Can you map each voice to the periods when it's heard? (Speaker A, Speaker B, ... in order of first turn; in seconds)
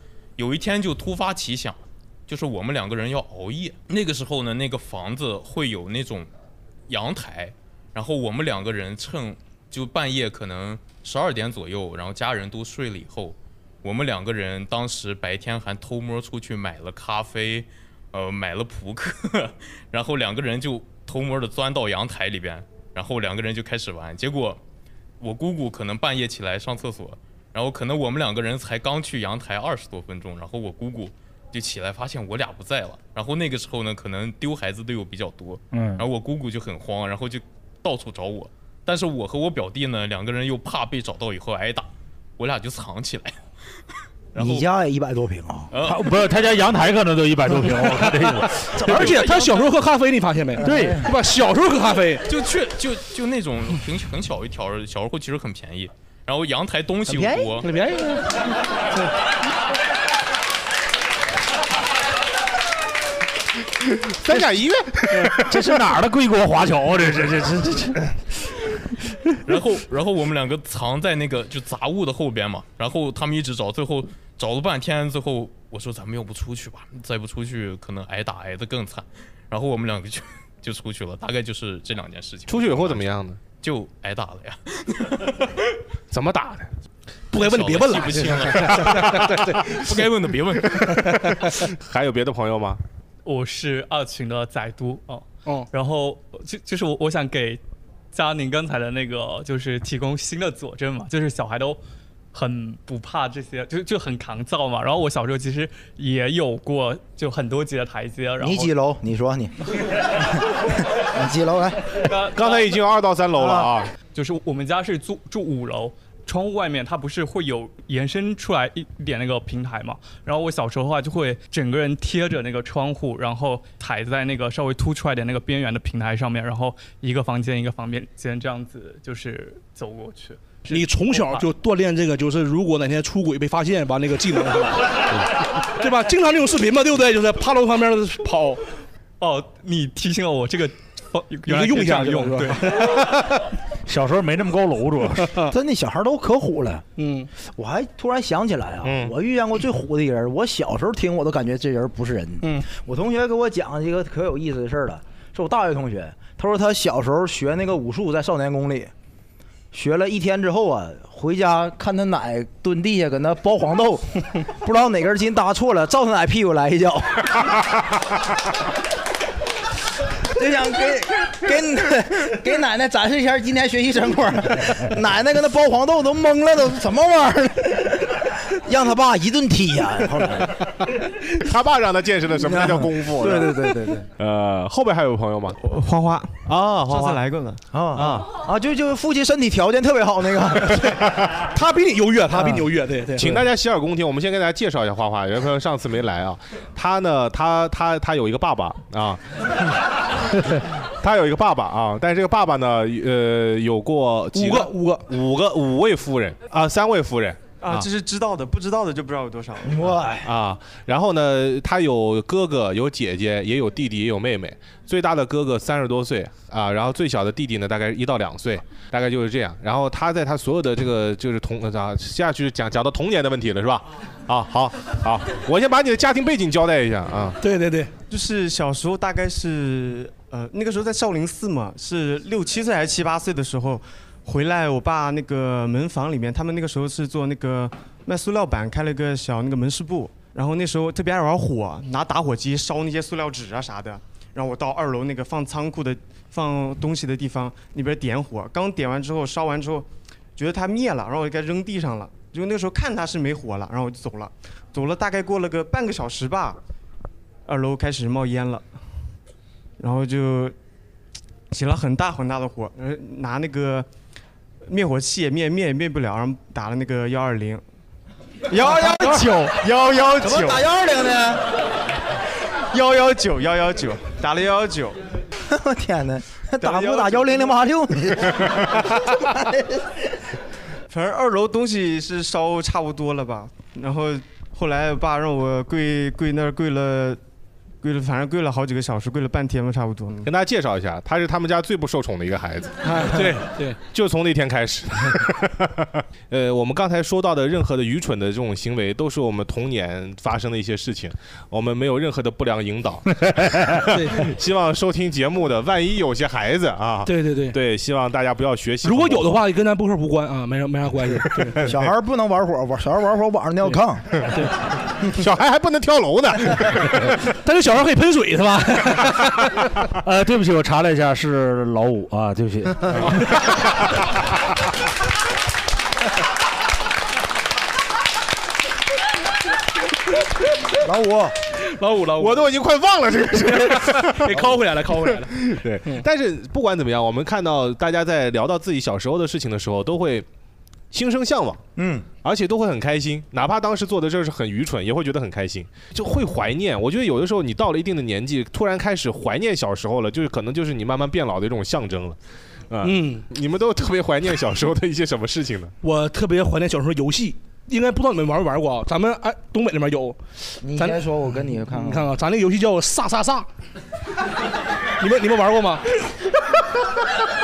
Speaker A: 0.4-6.3, 6.9-24.6, 25.2-41.9, 42.4-43.4, 44.3-44.7, 45.7-46.2, 52.2-57.7, 69.5-85.7, 87.3-91.3
Speaker B: 35.7-36.0, 45.8-49.1, 50.6-51.0, 65.4-68.1, 143.9-145.3, 319.9-322.9
Speaker C: 44.3-45.7, 48.7-49.7, 50.6-51.0, 57.1-57.5, 108.4-109.5, 110.2-112.1, 113.3-113.7, 145.5-146.8, 147.6-158.9, 159.7-167.7, 170.3-180.7, 182.4-184.0, 187.7-191.1, 192.3-192.7, 209.6-210.3, 268.5-269.5, 270.2-271.4, 275.5-280.0, 311.6-314.3, 330.8-331.3, 341.8-342.1, 360.6-362.1
Speaker D: 48.8-52.2, 57.7-58.1, 87.3-89.8, 130.7-138.6, 141.5-143.0, 145.3-145.5, 147.0-147.3, 191.5-193.4, 204.3-205.1, 227.4-227.9, 292.8-293.8, 303.9-304.3, 307.1-307.6, 308.8-311.6, 317.3-319.6, 331.6-332.5, 333.4-336.0, 352.8-353.2, 355.8-360.2, 360.7-361.1, 361.7-363.5, 365.0-365.9
Speaker E: 63.8-65.6, 82.5-83.4, 86.1-86.7, 91.4-92.8, 112.3-113.9, 148.8-149.1, 181.3-185.6, 186.4-187.2, 187.9-188.3, 193.2-199.6, 200.3-207.9, 210.2-227.4, 290.2-309.4, 311.4-311.7, 315.0-317.2, 332.1-340.2, 340.9-341.6, 342.2-352.2, 352.7-355.7
Speaker F: 93.2-97.6, 98.1-101.8, 102.3-108.7, 112.0-112.8, 114.1-131.5, 139.2-143.1
Speaker G: 185.6-187.6, 207.6-209.9, 228.1-256.6, 257.4-258.6, 259.8-260.5, 261.5-263.9, 264.6-267.6, 268.5-270.7, 272.7-275.0, 276.6-277.6, 280.9-287.2, 287.8-290.3